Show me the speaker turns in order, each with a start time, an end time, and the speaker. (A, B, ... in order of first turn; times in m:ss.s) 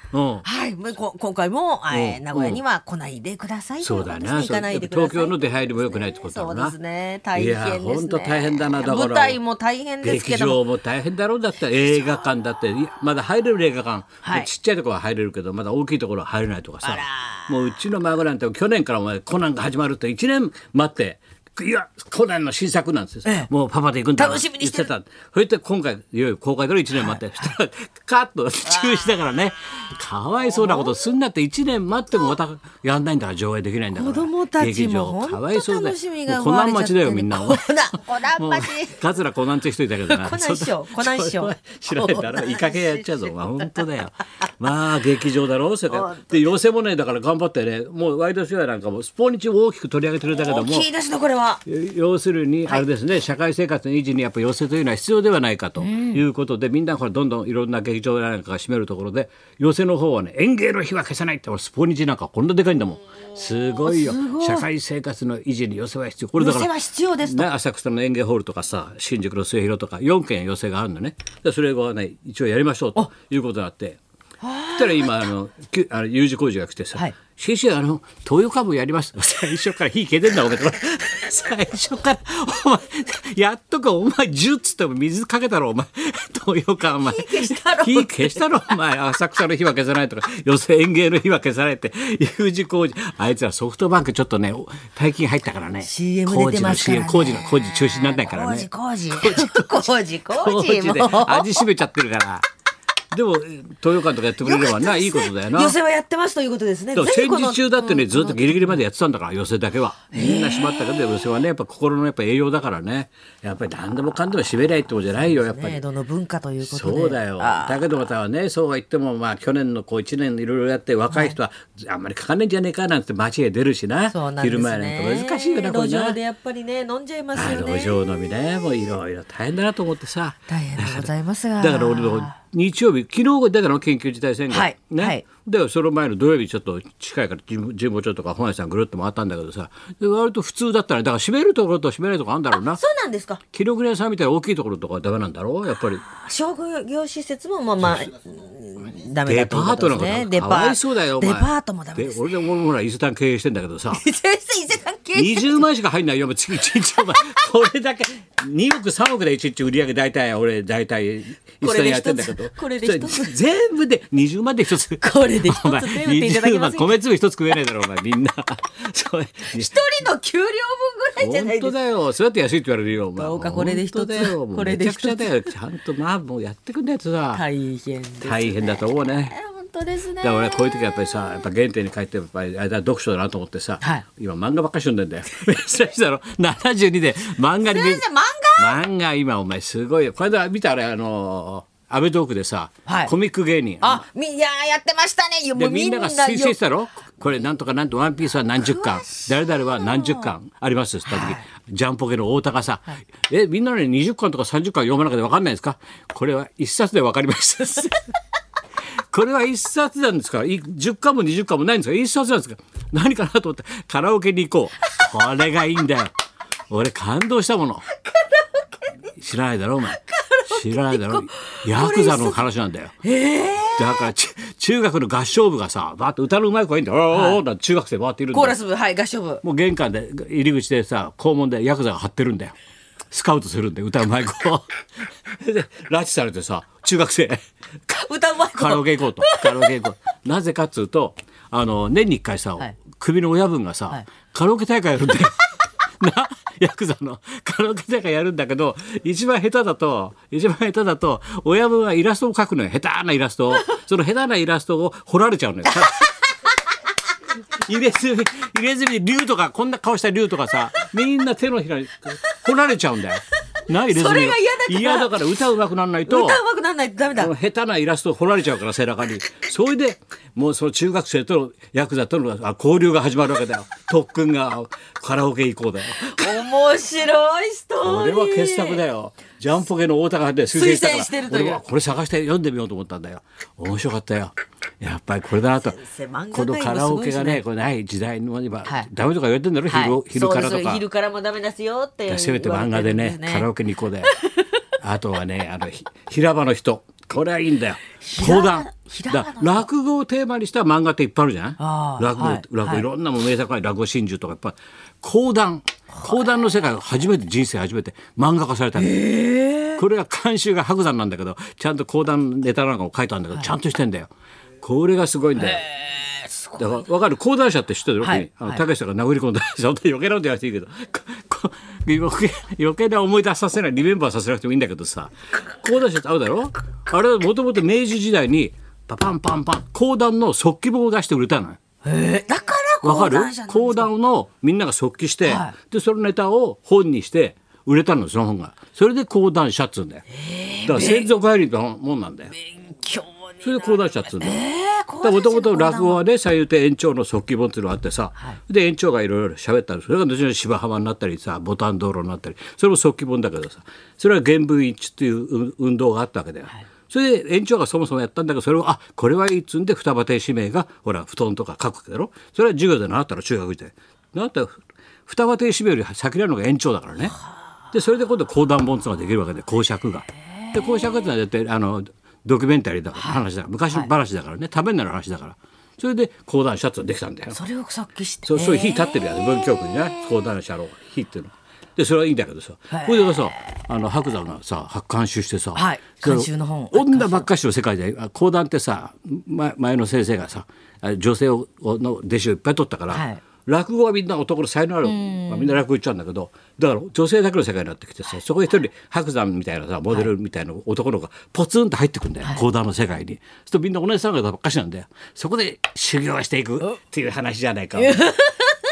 0:00.1-0:00.4 A
0:00.4-0:10.6 B
0:01.9-0:02.6 A
0:03.8-0:06.7 A
0:07.3-0:09.4 A
0:10.0-0:50.9 A
0:14.2-0:14.5 B
0:16.8-0:17.5 B
0:24.2-0:24.9 B
0:28.8-0:29.2 B
0:30.5-0:31.0 B
0:33.9-0:39.0 B
0:40.1-0:43.6 B
0:45.9-0:46.4 B
0:50.3-0:51.6 B
0:51.6-1:06.7 A
0:55.8-0:56.2 B
1:03.8-1:04.7 B
1:06.4-1:07.5 B
1:07.2-1:14.0 A
1:14.4-1:15.2 B
1:14.8-1:42.4 A
1:27.0-1:28.4 B
1:35.8-1:41.6 B
1:43.1-1:45.8 A
1:44.4-1:48.8 B
1:46.9-1:55.8 A
1:50.1-1:51.2 B
1:55.2-1:57.8 B
1:56.6-2:06.2 A
2:01.1-2:01.4 B
2:04.1-2:08.0 B
2:07.3-2:22.8 A
2:10.5-2:12.3 B
2:14.5-2:15.2 B
2:22.5-2:23.4 B
2:23.5-2:26.0 A
2:26.0-2:32.3 B
2:29.2-2:34.0 A
2:33.9-2:35.6 B
2:35.1-2:50.0 A
2:41.6-2:43.3 B
2:45.0-2:47.0 B
2:49.5-2:51.7 B
2:51.2-2:57.4 A
2:53.2-2:55.5 B
2:57.3-2:58.8 B
2:58.2-2:59.3 A
2:59.3-3:01.1 B
3:00.2-3:08.0 A
3:07.7-3:08.8 B
3:08.6-3:14.0 A
3:12.8-3:13.1 B
3:13.8-3:16.6 B
3:15.5-3:28.1 A
3:18.5-3:20.3 B
3:21.1-3:21.4 B
3:29.1-3:36.1 A
3:36.7-3:37.9 A
3:39.1-3:43.0 A
3:39.9-3:42.4 B
3:43.0-3:44.1 B
3:43.8-3:48.6 A
3:47.1-3:47.4 B
3:48.3-3:49.4 B
3:49.4-3:52.5 A
3:53.1-3:57.4 A
3:57.9-3:59.7 B
3:58.5-4:05.5 A
4:06.0-4:16.1 A
4:17.5-4:26.4 A
4:23.8-4:25.2 B
4:26.1-4:27.3 B
4:27.2-4:36.3 A
4:36.0-4:38.8 B
4:37.8-4:45.8 A
4:40.5-4:41.6 B
4:45.6-4:47.4 B
4:46.3-4:50.8 A
4:49.7-4:53.5 B
4:52.1-4:54.2 A
4:54.0-4:54.3 B
4:54.8-5:09.0 A
4:58.0-4:59.7 B
5:01.6-5:02.8 B
5:08.7-5:09.8 B
5:09.8-5:14.1 A
5:14.6-5:15.6 A
5:15.4-5:16.7 B
5:16.6-5:31.6 A
5:18.0-5:18.6 B
5:31.8-5:33.9 B
5:32.8-5:40.0 A
5:35.2-5:35.5 B
5:40.1-5:41.1 B
5:40.6-5:42.4 A
5:42.4-5:43.6 B
5:43.4-5:44.4 A
5:44.2-5:46.0 B
5:45.0-6:07.2 A
6:07.7-6:17.4 A
6:10.4-6:11.1 B
6:13.0-6:13.9 B
6:17.3-6:20.1 B
6:18.3-6:48.1 A
6:22.7-6:23.3 B
6:25.5-6:27.3 B
6:32.9-6:33.2 B
6:34.8-6:35.6 B
6:47.8-6:48.6 B